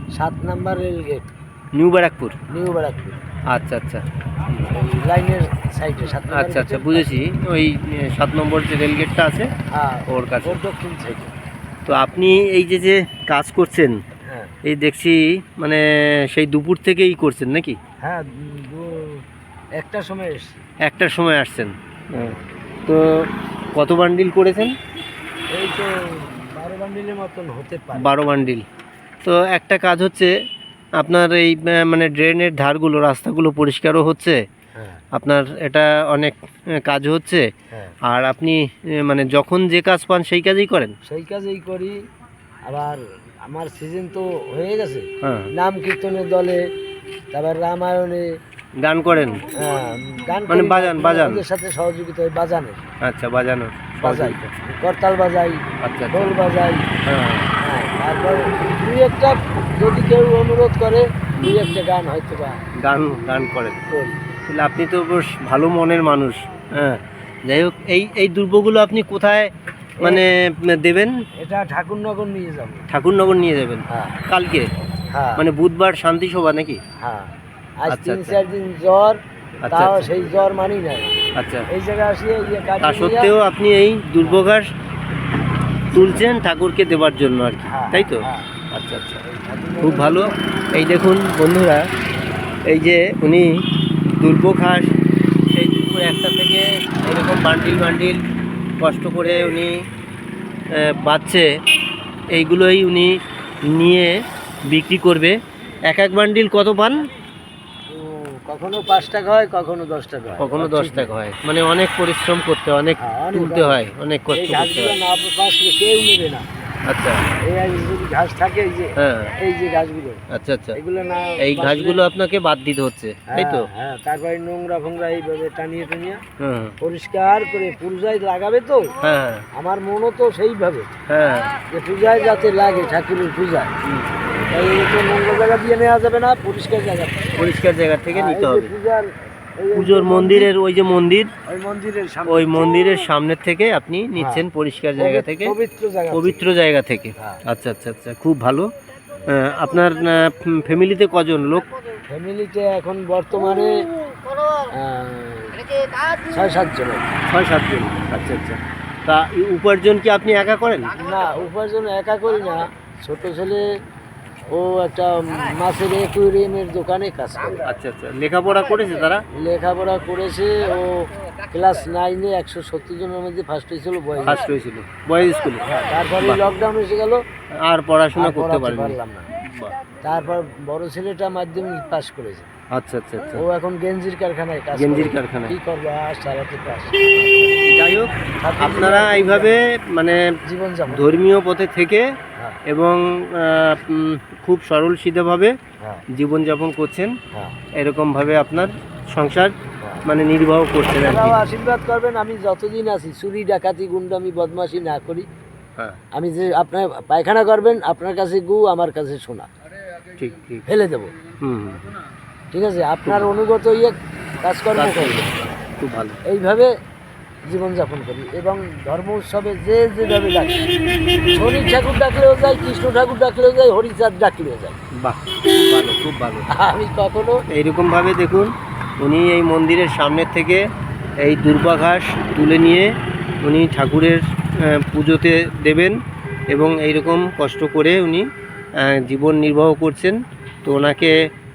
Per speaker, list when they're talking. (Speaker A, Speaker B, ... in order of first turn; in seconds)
Speaker A: 0.1-1.3, 2.5-3.2, 4.7-7.2, 9.7-11.3, 14.3-14.5, 18.0-19.2, 19.8-20.6, 22.1-22.5, 25.5-28.4, 34.8-35.0, 41.0-42.0, 42.7-46.6, 47.3-48.3, 49.6-52.9, 54.0-55.6, 56.1-56.8, 57.6-62.5, 63.9-64.2, 71.4-72.9, 73.9-74.2, 75.1-75.4, 77.0-81.1, 81.7-83.3, 87.7-88.5, 89.2-90.3, 107.9-111.1, 113.0-113.8, 114.3-116.5, 117.5-120.2, 120.8-122.0, 123.3-126.2, 126.8-128.9, 129.6-130.9, 131.7-133.7, 134.5-137.3, 138.1-140.5, 141.5-142.7, 144.2-144.4, 145.0-146.5, 152.1-153.7, 154.7-157.1, 161.0-163.6, 164.5-167.7, 169.3-174.4, 175.6-177.2, 178.2-179.2, 180.0-182.5, 183.3-187.6, 188.4-189.5, 190.5-191.2, 200.8-205.2, 206.1-209.5, 210.7-211.1, 212.5-215.4, 216.3-216.7, 217.5-224.8, 226.5-227.4
Speaker B: 1.7-2.4, 3.5-4.6, 6.3-9.5, 10.1-10.6, 11.9-14.0, 14.6-17.8, 20.8-22.3, 22.9-24.7, 27.9-28.6, 29.2-30.3, 31.0-34.4, 35.1-37.5, 38.0-40.9, 45.2-45.5, 48.8-49.5, 50.5-51.4, 53.0-54.5, 55.8-56.3, 57.0-57.5, 62.8-63.9, 64.4-71.1, 72.9-74.7, 75.4-76.8, 77.9-78.4, 79.6-80.1, 81.3-81.7, 82.8-84.7, 85.9-89.2, 89.8-91.8, 92.7-93.5, 94.1-94.9, 95.5-98.2, 98.8-99.7, 100.7-101.5, 102.3-103.1, 103.7-104.1, 104.7-105.3, 105.9-107.0, 110.4-114.9, 116.9-117.2, 119.0-119.3, 120.3-120.8, 121.4-123.7, 126.4-126.7, 129.0-129.4, 131.1-131.5, 137.3-138.7, 139.7-141.3, 142.3-145.5, 146.1-148.7, 149.2-151.7, 157.2-161.0, 167.6-169.2, 174.2-175.7, 177.7-179.7, 182.7-183.4, 184.7-185.5, 187.6-190.2, 190.9-192.0, 192.7-195.5, 196.1-197.2, 197.8-199.5, 200.1-201.4, 210.2-210.6, 211.4-211.9, 214.8-215.3, 215.8-216.2, 225.0-226.5, 227.5-230.6, 231.2-232.9, 233.4-235.9, 236.5-238.2, 238.8-241.2